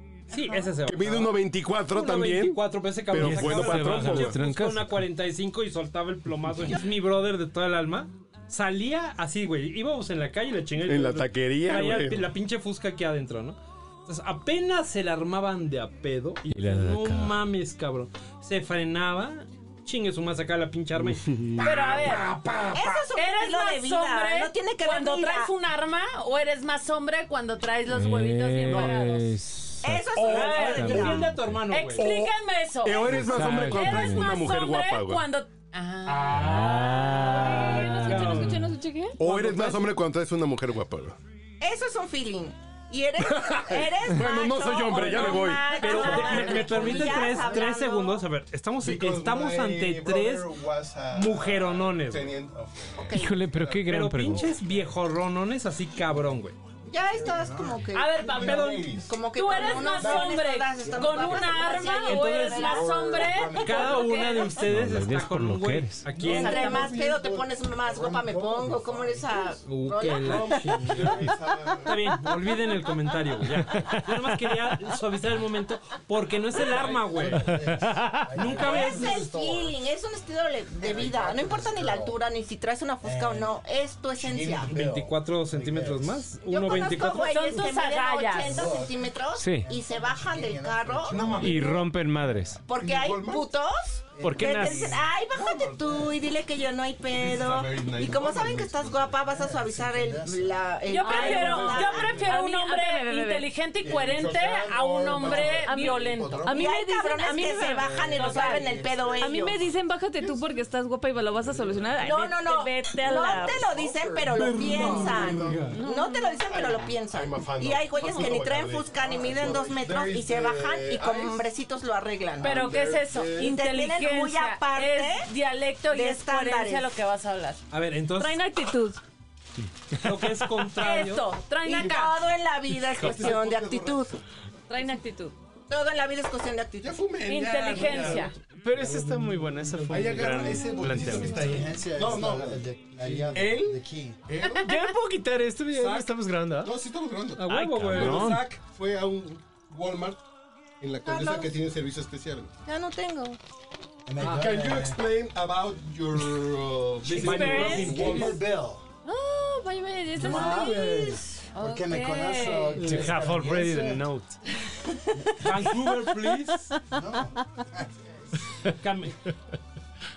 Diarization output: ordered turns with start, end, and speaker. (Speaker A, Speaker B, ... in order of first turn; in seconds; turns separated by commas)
Speaker A: 0.3-23.0, Speaker B: 0.9-4.4, Speaker C: 3.2-5.1, Speaker B: 10.8-12.3, Speaker C: 16.5-17.4, Speaker B: 21.3-21.8, Speaker D: 21.6-22.3, Speaker E: 22.7-25.5, Speaker D: 23.1-29.3, Speaker C: 27.9-31.6, Speaker E: 29.8-31.3, Speaker B: 30.1-31.0, Speaker A: 30.3-32.1, Speaker D: 31.7-37.0, Speaker B: 32.0-32.3, Speaker B: 32.8-35.3, Speaker C: 33.1-34.3, Speaker C: 36.1-38.2, Speaker A: 36.2-36.9, Speaker F: 37.2-39.3, Speaker A: 37.5-38.7, Speaker B: 39.2-41.2, Speaker A: 39.2-39.6, Speaker E: 41.6-48.3, Speaker B: 43.2-46.7, Speaker A: 45.0-50.5, Speaker G: 46.0-47.8, Speaker B: 48.8-54.0, Speaker A: 51.1-52.3, Speaker E: 53.0-53.4, Speaker C: 53.1-54.5, Speaker A: 53.9-56.6, Speaker E: 56.9-63.2, Speaker G: 57.1-58.6, Speaker D: 57.9-64.6, Speaker A: 58.4-58.8, Speaker B: 58.4-59.2, Speaker G: 59.8-64.4, Speaker A: 62.1-62.7, Speaker A: 63.6-66.9, Speaker C: 64.6-66.1, Speaker G: 66.2-69.7, Speaker E: 66.2-71.4, Speaker A: 69.7-71.2, Speaker B: 70.1-72.0, Speaker G: 70.3-70.6, Speaker A: 71.9-77.5, Speaker G: 76.6-79.7, Speaker C: 77.4-78.2, Speaker A: 78.4-79.1, Speaker E: 78.4-84.7, Speaker B: 79.0-79.6, Speaker G: 80.8-82.2, Speaker G: 83.0-83.6, Speaker G: 84.2-86.3, Speaker A: 84.7-87.6, Speaker E: 86.4-91.6, Speaker D: 86.8-88.7, Speaker G: 88.4-91.9, Speaker C: 89.4-89.7, Speaker B: 91.1-91.8, Speaker C: 91.4-92.6, Speaker G: 92.6-93.1, Speaker E: 92.7-102.2, Speaker B: 92.8-93.5, Speaker G: 94.1-96.1, Speaker C: 94.2-95.0, Speaker B: 95.4-96.2, Speaker B: 97.1-99.2, Speaker G: 99.2-100.7, Speaker D: 100.9-106.5, Speaker B: 101.1-102.3, Speaker F: 101.2-103.5, Speaker G: 101.3-102.2, Speaker G: 103.8-106.8, Speaker F: 105.4-108.0, Speaker E: 106.4-109.6, Speaker G: 107.4-109.5, Speaker D: 108.1-108.8, Speaker F: 109.2-113.7, Speaker B: 111.4-112.0, Speaker E: 112.0-122.7, Speaker G: 113.5-115.5, Speaker B: 113.6-115.8, Speaker A: 114.8-115.7, Speaker F: 115.7-116.6, Speaker B: 116.5-121.5, Speaker B: 122.4-123.5, Speaker D: 122.4-127.6, Speaker E: 123.3-125.3, Speaker E: 125.9-126.9, Speaker A: 127.7-128.5, Speaker F: 128.2-129.0, Speaker A: 129.9-131.3, Speaker D: 130.8-132.3, Speaker E: 131.6-134.2, Speaker B: 132.8-134.1, Speaker F: 134.7-135.4, Speaker E: 135.7-137.0, Speaker B: 136.8-138.3, Speaker D: 137.3-138.3, Speaker C: 138.6-141.4, Speaker A: 138.9-139.8, Speaker B: 139.9-144.7, Speaker G: 140.6-144.2, Speaker D: 144.5-144.9, Speaker C: 144.7-146.7, Speaker B: 145.7-150.2, Speaker A: 147.4-148.5, Speaker C: 147.5-148.4, Speaker B: 150.8-152.5, Speaker E: 151.1-151.6, Speaker E: 152.7-153.4, Speaker G: 154.1-155.0, Speaker B: 154.2-158.4, Speaker A: 157.0-158.4, Speaker G: 157.0-158.8, Speaker F: 157.3-158.0, Speaker D: 157.3-158.0, Speaker F: 159.1-161.2, Speaker D: 160.1-162.9, Speaker G: 160.2-164.1, Speaker C: 162.8-164.4, Speaker A: 165.4-166.8, Speaker G: 166.9-168.7, Speaker A: 168.7-169.2